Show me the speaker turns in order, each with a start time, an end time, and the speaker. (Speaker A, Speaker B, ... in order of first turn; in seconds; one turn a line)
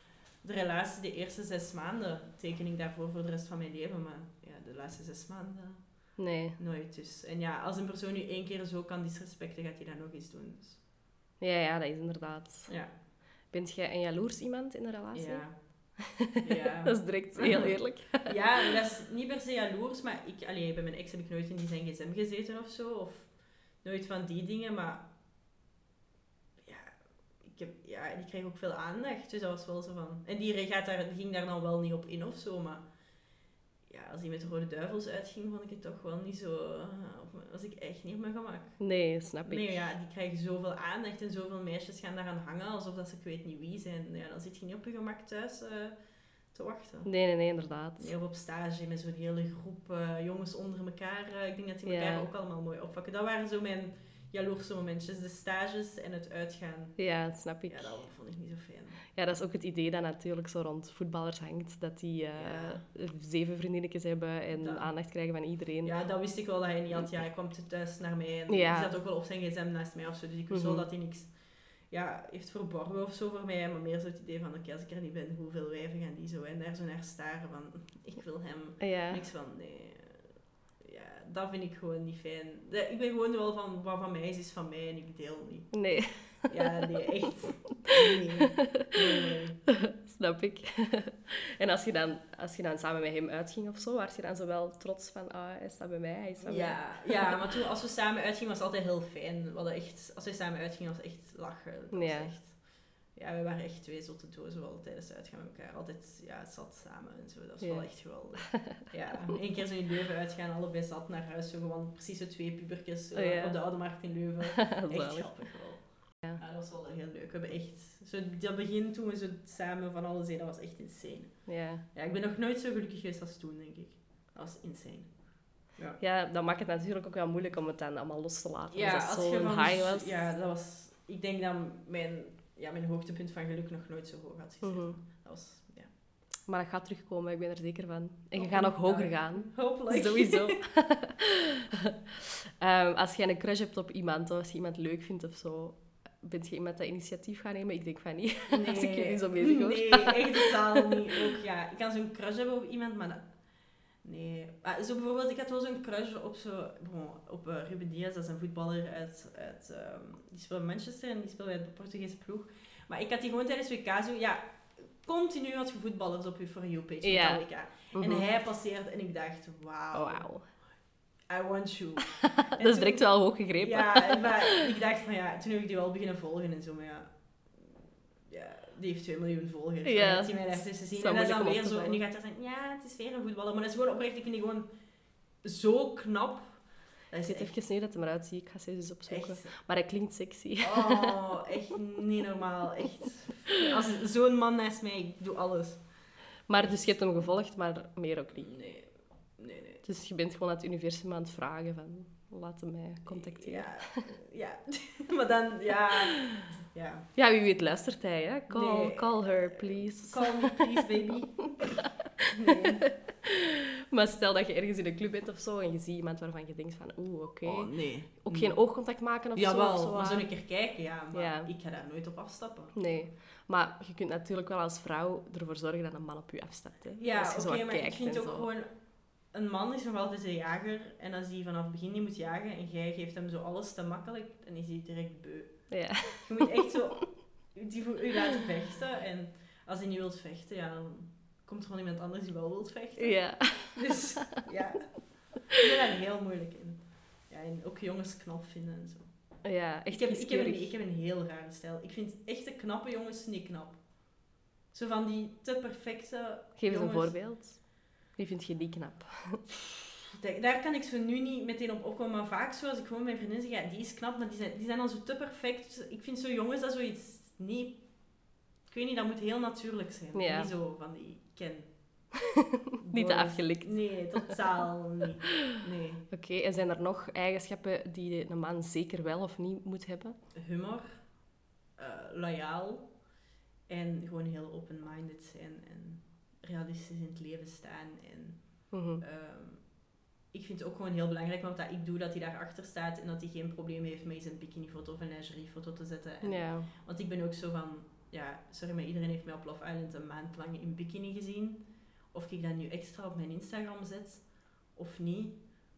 Speaker A: 0.4-5.8
Speaker B: 6.2-6.6
Speaker A: 6.6-10.8
Speaker B: 11.4-12.7
Speaker A: 12.7-12.9
Speaker B: 13.5-15.4
Speaker A: 15.1-15.6
Speaker B: 16.0-18.7
Speaker A: 16.4-23.3
Speaker A: 23.8-25.1
Speaker A: 26.6-32.9
Speaker A: 33.9-38.8
Speaker B: 38.8-39.8
Speaker A: 39.4-46.0
Speaker A: 46.5-47.1
Speaker B: 47.0-48.1
Speaker A: 48.0-57.0
Speaker B: 51.9-52.3
Speaker B: 57.0-58.0
Speaker A: 57.7-59.0
Speaker B: 59.1-66.0
Speaker A: 62.4-62.8
Speaker A: 64.6-64.9
Speaker A: 65.8-71.3
Speaker B: 68.5-68.9
Speaker B: 70.5-70.9
Speaker A: 71.9-80.3
Speaker B: 78.8-79.2
Speaker A: 80.8-89.6
Speaker B: 85.7-86.5
Speaker B: 88.6-88.9
Speaker B: 89.8-97.4
Speaker A: 96.4-126.0
Speaker B: 101.9-102.3
Speaker B: 107.6-108.7
Speaker B: 113.1-113.8
Speaker B: 114.5-115.4
Speaker B: 121.5-121.8
Speaker B: 126.0-130.2
Speaker A: 128.7-135.9
Speaker B: 134.6-135.0
Speaker B: 136.5-141.9
Speaker A: 138.3-140.6
Speaker B: 142.6-151.0
Speaker A: 148.5-153.3
Speaker A: 154.0-170.3
Speaker B: 167.0-168.3
Speaker B: 169.9-170.5
Speaker A: 171.3-177.8
Speaker B: 172.4-174.6
Speaker A: 178.3-184.7
Speaker B: 179.8-182.0
Speaker A: 185.4-187.5
Speaker B: 187.2-191.2
Speaker A: 189.1-189.5
Speaker A: 190.6-195.9
Speaker B: 196.5-198.5
Speaker A: 196.5-196.9
Speaker A: 198.4-199.8
Speaker B: 199.8-204.1
Speaker A: 203.1-207.1
Speaker B: 207.2-210.7
Speaker A: 208.5-212.8
Speaker B: 212.2-220.3
Speaker A: 217.4-218.7
Speaker A: 219.3-222.8
Speaker B: 221.1-221.5
Speaker B: 222.8-228.5
Speaker A: 227.0-228.7
Speaker A: 229.3-249.1
Speaker B: 235.7-236.4
Speaker B: 243.0-244.1
Speaker B: 249.4-250.7
Speaker A: 249.9-253.9
Speaker A: 254.7-257.2
Speaker B: 256.6-259.4
Speaker A: 260.2-272.0
Speaker B: 270.1-270.5
Speaker B: 272.8-274.4
Speaker A: 272.8-276.1
Speaker B: 276.1-280.2
Speaker A: 280.4-281.1
Speaker A: 281.8-282.9
Speaker A: 283.7-289.8
Speaker B: 288.7-289.0
Speaker A: 290.3-305.5
Speaker B: 296.2-296.7